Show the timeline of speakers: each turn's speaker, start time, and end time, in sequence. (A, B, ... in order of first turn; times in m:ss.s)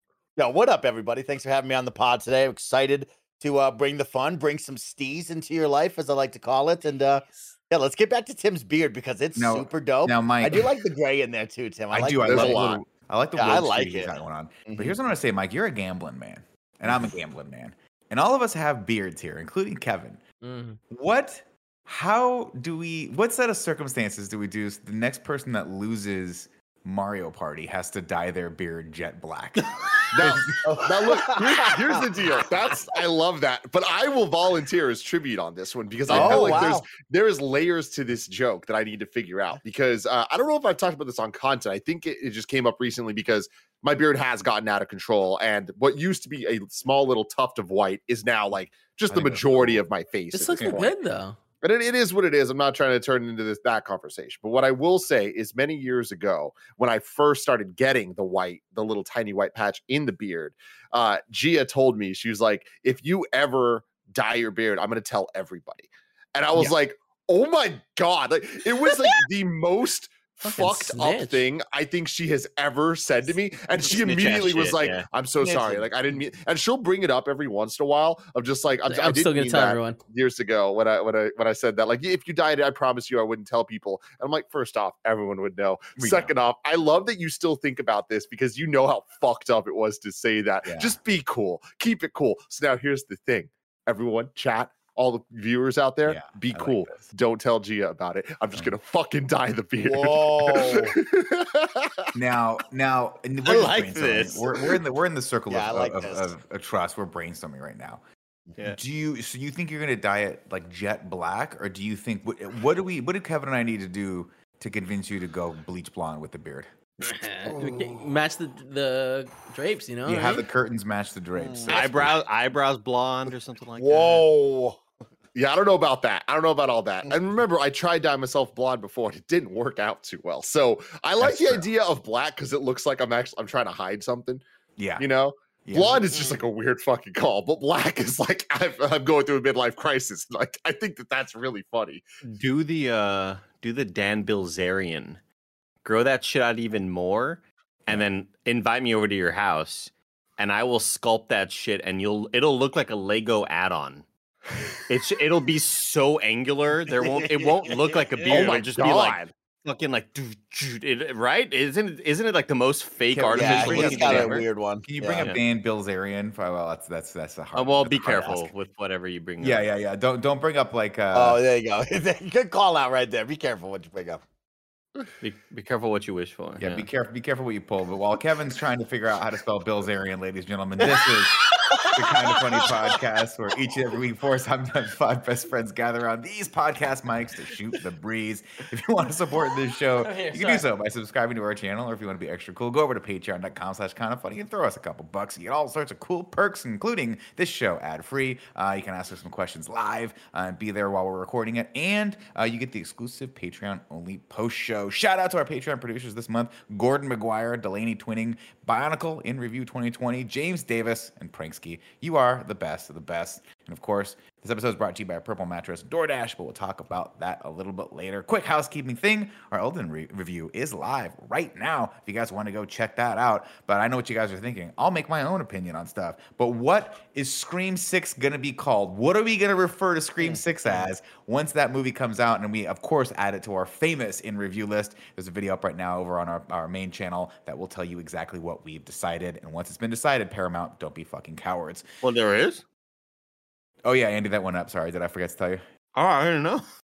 0:00.4-0:12.7 A
0:09.4-0:10.6 B
0:11.9-0:20.2 B
0:12.3-0:12.8 C
0:13.4-0:14.1 A
0:14.7-0:15.0 A
0:20.4-0:20.8 D
0:20.9-0:30.6 B
0:30.1-0:50.9 C
0:30.6-0:32.0 A
0:36.1-0:36.9 A
0:36.1-0:36.6 B
0:49.1-0:49.8 B
0:50.3-0:51.4 D
0:50.6-0:50.8 B
0:51.6-1:42.1 C
1:10.4-1:11.4 D
1:13.8-1:15.1 E
1:18.9-1:20.0 D
1:26.0-1:26.4 B
1:30.6-1:31.0 B
1:36.1-1:37.1 B
1:39.8-1:41.0 A
1:42.1-1:48.0 B
1:43.4-1:44.8 E
1:45.5-1:46.3 A
1:48.6-1:56.7 B
1:57.1-2:00.3 D
2:00.0-2:02.2 B
2:01.4-2:01.8 A
2:01.7-2:04.3 E
2:03.8-2:04.8 A
2:05.4-2:14.4 C
2:11.2-2:11.7 B
2:14.8-2:15.1 B
2:15.0-2:22.0 C
2:15.6-2:16.1 B
2:22.2-2:25.2 E
2:25.8-2:34.1 E
2:34.9-2:44.5 E
2:37.1-2:37.7 A
2:38.3-2:39.3 C
2:43.1-2:48.5 B
2:43.3-2:45.3 A
2:47.6-2:49.7 E
2:49.4-2:51.4 B
2:51.1-2:54.2 A
2:55.2-2:56.9 E
2:56.6-4:01.9 B
3:00.8-3:01.9 E
3:10.0-3:10.7 D
4:02.0-4:02.6 E
4:03.8-4:05.6 B
4:06.0-4:06.6 E